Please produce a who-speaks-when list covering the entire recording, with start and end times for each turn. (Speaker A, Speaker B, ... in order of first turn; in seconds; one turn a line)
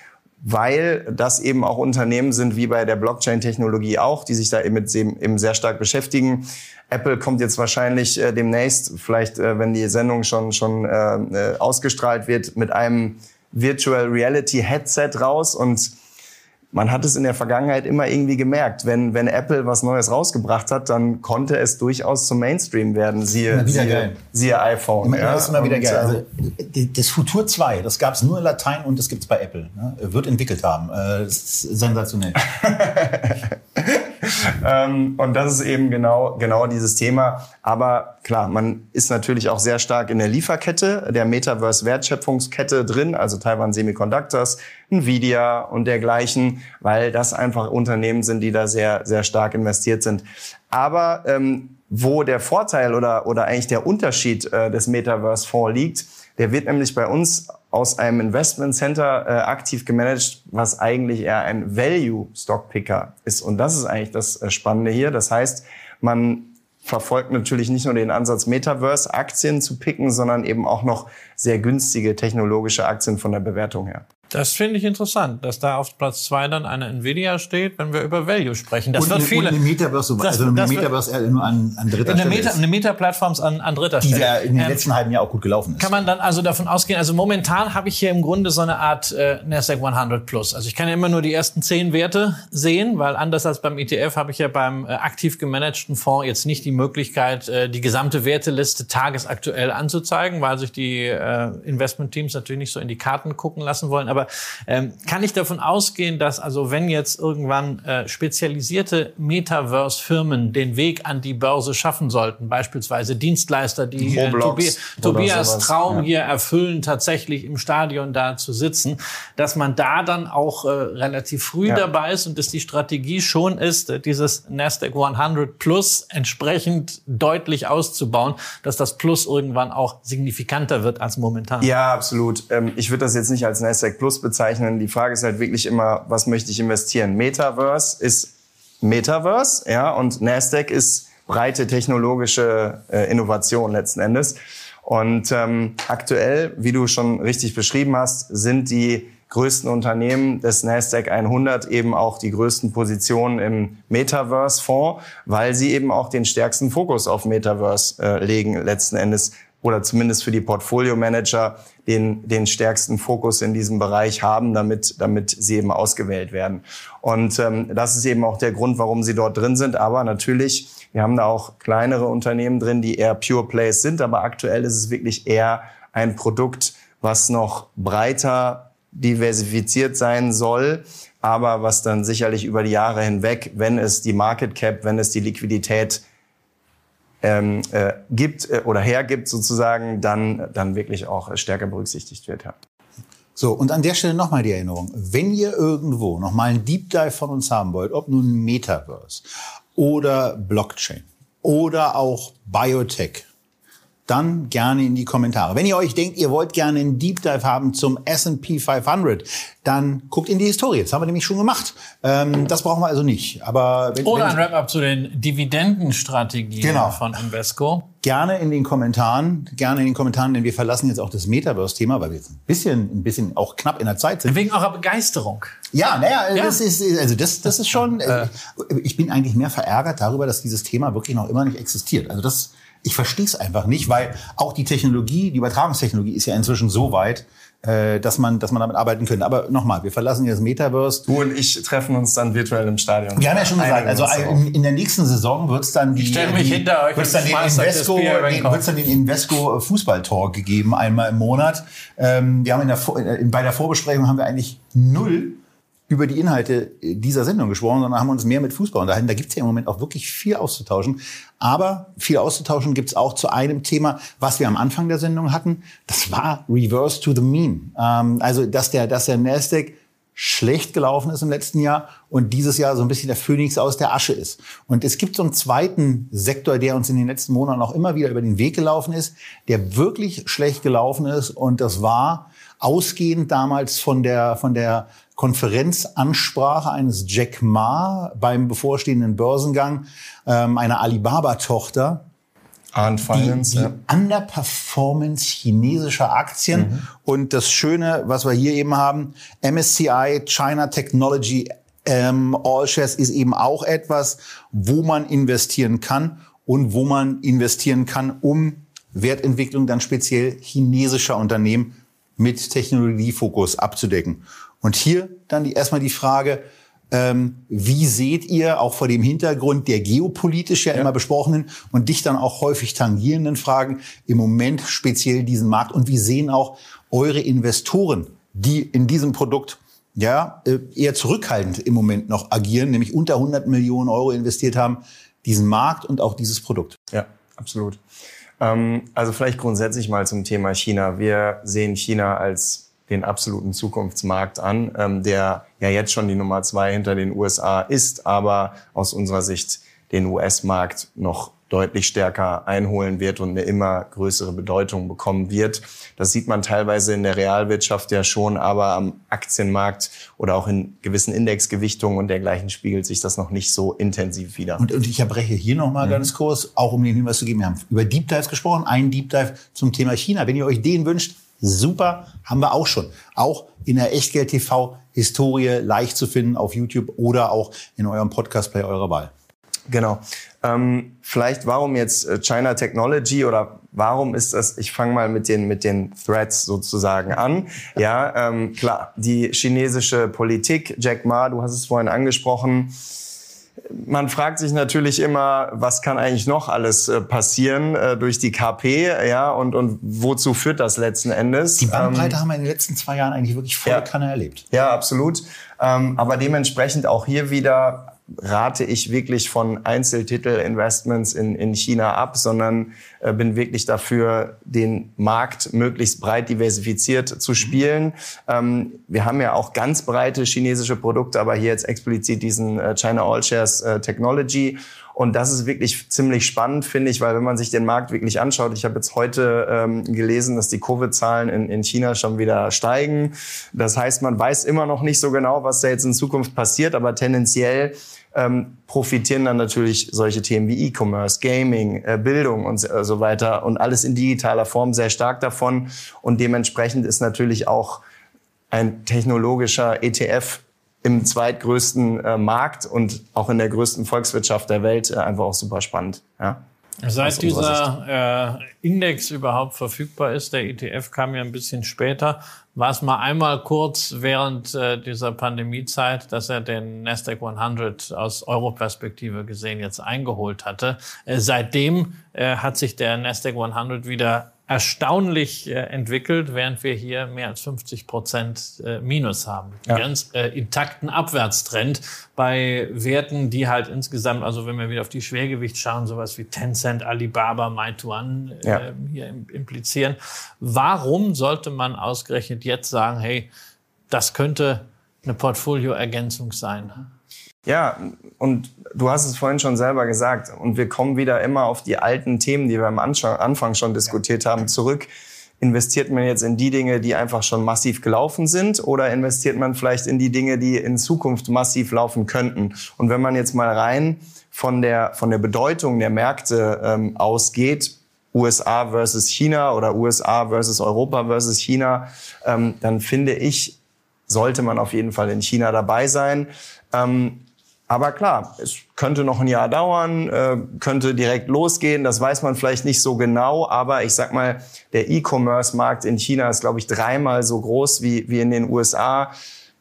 Speaker A: 0.4-15.9
Speaker A: 16.7-26.2
Speaker B: 23.5-24.2
Speaker B: 25.0-32.5
Speaker A: 32.5-74.0
Speaker C: 74.3-79.6
Speaker B: 79.0-82.6
Speaker C: 80.2-80.9
Speaker C: 82.0-84.9
Speaker B: 84.0-86.0
Speaker C: 85.8-131.7
Speaker A: 114.0-116.0
Speaker A: 131.6-186.0
Speaker A: 187.2-192.6
Speaker B: 193.4-203.3
Speaker B: 204.1-214.4
Speaker C: 214.0-217.9
Speaker B: 216.6-217.1
Speaker B: 218.0-224.4
Speaker C: 224.3-225.6
Speaker B: 225.7-241.1
Speaker A: 241.1-244.4
Speaker B: 243.2-292.1
Speaker C: 245.9-248.7
Speaker A: 292.7-293.7
Speaker B: 293.1-336.8
Speaker A: 296.5-296.8
Speaker A: 336.9-337.8
Speaker A: 338.4-364.6
Speaker B: 364.6-379.1
Speaker A: 365.8-366.1
Speaker A: 379.7-392.7
Speaker A: 393.7-402.2
Speaker B: 401.6-404.4
Speaker A: 404.5-447.8
Speaker A: 448.5-456.4
Speaker C: 456.8-493.3
Speaker A: 457.0-457.6
Speaker C: 493.9-496.9
Speaker A: 497.4-504.9
Speaker A: 505.4-523.6
Speaker A: 524.1-539.1